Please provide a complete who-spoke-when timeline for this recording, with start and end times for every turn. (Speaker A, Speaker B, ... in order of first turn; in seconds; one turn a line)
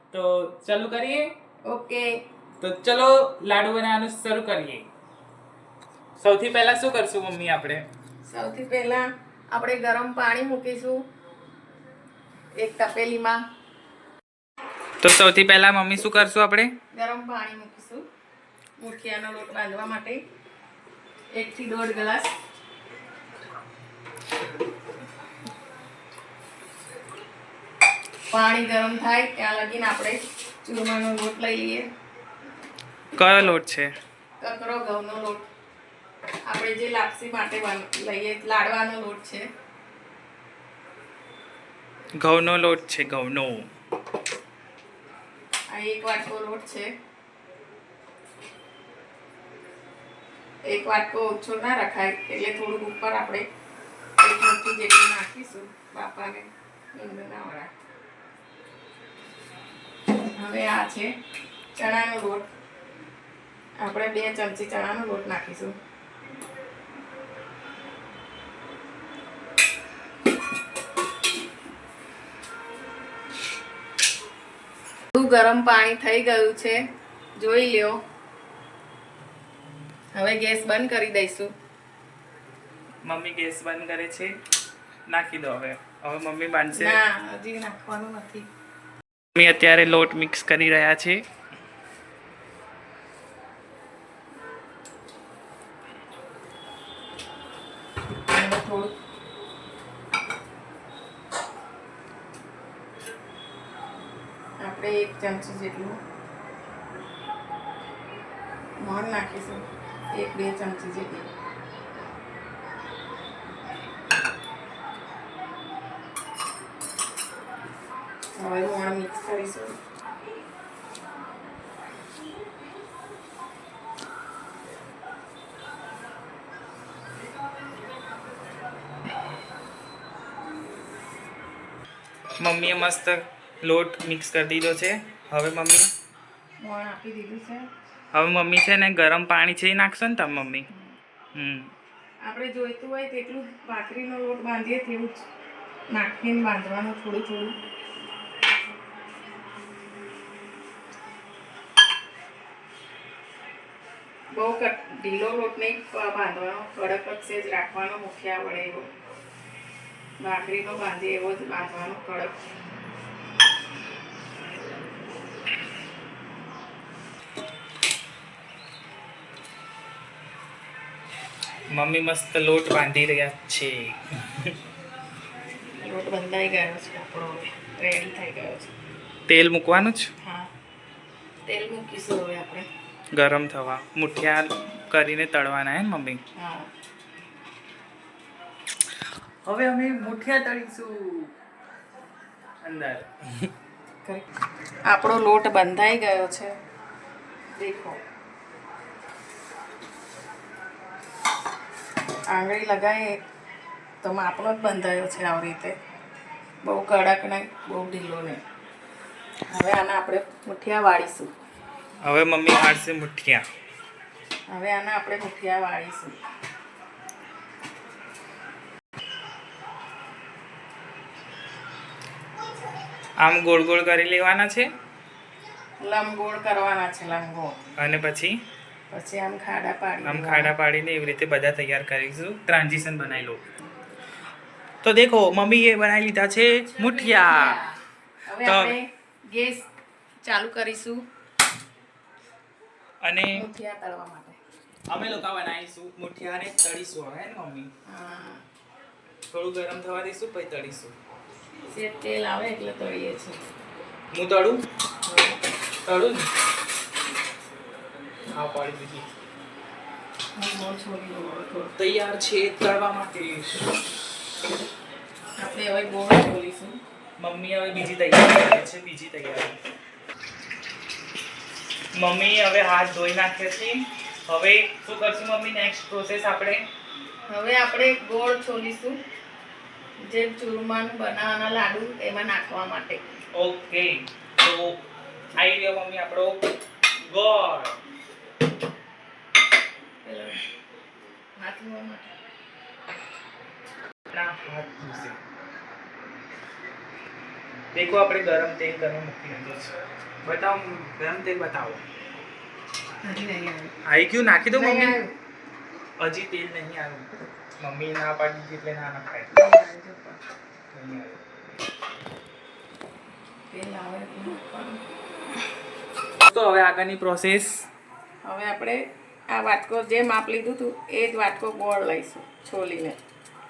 Speaker A: 0.1-1.3
Speaker B: 1.6-2.1
Speaker A: 2.6-4.9
Speaker A: 6.2-7.8
Speaker B: 8.2-11.0
Speaker B: 12.6-13.4
Speaker A: 15.0-16.7
Speaker B: 16.9-18.0
Speaker B: 18.8-20.2
Speaker B: 21.3-22.3
Speaker B: 28.3-31.8
Speaker A: 33.2-33.9
Speaker B: 34.4-35.5
Speaker B: 36.5-39.4
Speaker A: 42.2-43.7
Speaker B: 45.7-46.9
Speaker B: 50.6-53.5
Speaker B: 54.2-57.7
Speaker B: 60.4-61.1
Speaker B: 61.8-62.5
Speaker B: 63.8-65.7
Speaker B: 75.2-76.8
Speaker B: 77.4-78.0
Speaker B: 80.1-81.5
Speaker A: 83.0-84.3
Speaker A: 85.1-87.0
Speaker B: 86.7-88.5
Speaker A: 89.3-91.2
Speaker B: 98.3-98.9
Speaker B: 104.6-106.0
Speaker B: 108.8-111.3
Speaker B: 118.4-119.8
Speaker A: 132.4-135.9
Speaker B: 136.6-137.7
Speaker A: 138.1-140.7
Speaker A: 141.3-141.7
Speaker B: 142.2-145.2
Speaker B: 145.9-147.5
Speaker B: 154.3-158.9
Speaker B: 160.2-162.3
Speaker A: 171.7-174.6
Speaker B: 175.8-178.7
Speaker A: 179.3-180.1
Speaker B: 180.2-180.5
Speaker B: 181.4-182.7
Speaker A: 183.1-186.2
Speaker B: 186.3-186.7
Speaker A: 189.4-191.3
Speaker A: 192.6-193.5
Speaker B: 194.9-196.5
Speaker B: 197.6-198.0
Speaker B: 202.3-203.2
Speaker B: 204.0-205.7
Speaker B: 206.6-208.4
Speaker B: 209.5-211.3
Speaker A: 212.0-213.4
Speaker B: 214.5-216.2
Speaker A: 223.2-224.7
Speaker B: 225.8-227.6
Speaker A: 227.8-228.4
Speaker B: 228.9-230.5
Speaker A: 230.0-233.4
Speaker A: 234.8-237.6
Speaker B: 236.6-239.6
Speaker A: 238.4-238.8
Speaker B: 240.2-241.0
Speaker A: 243.0-243.4
Speaker B: 243.3-244.4
Speaker A: 244.9-247.7
Speaker B: 247.8-248.4
Speaker A: 249.3-250.9
Speaker B: 251.7-253.4
Speaker A: 254.1-254.6
Speaker B: 255.1-255.4
Speaker A: 255.8-256.3
Speaker A: 258.3-259.1
Speaker B: 260.4-261.7
Speaker A: 261.8-263.7
Speaker B: 265.4-266.8
Speaker A: 267.2-269.6
Speaker A: 271.9-276.6
Speaker B: 277.3-279.0
Speaker B: 280.0-283.0
Speaker A: 283.3-284.8
Speaker A: 285.4-286.4
Speaker A: 287.0-287.8
Speaker B: 290.0-290.4
Speaker B: 291.4-292.1
Speaker A: 294.1-295.2
Speaker A: 297.7-301.8
Speaker B: 303.0-303.7
Speaker A: 303.9-305.0
Speaker B: 304.5-305.1
Speaker A: 306.0-309.3
Speaker B: 309.3-310.2
Speaker A: 310.7-311.2
Speaker B: 313.5-314.8
Speaker A: 316.2-317.6
Speaker B: 318.2-323.0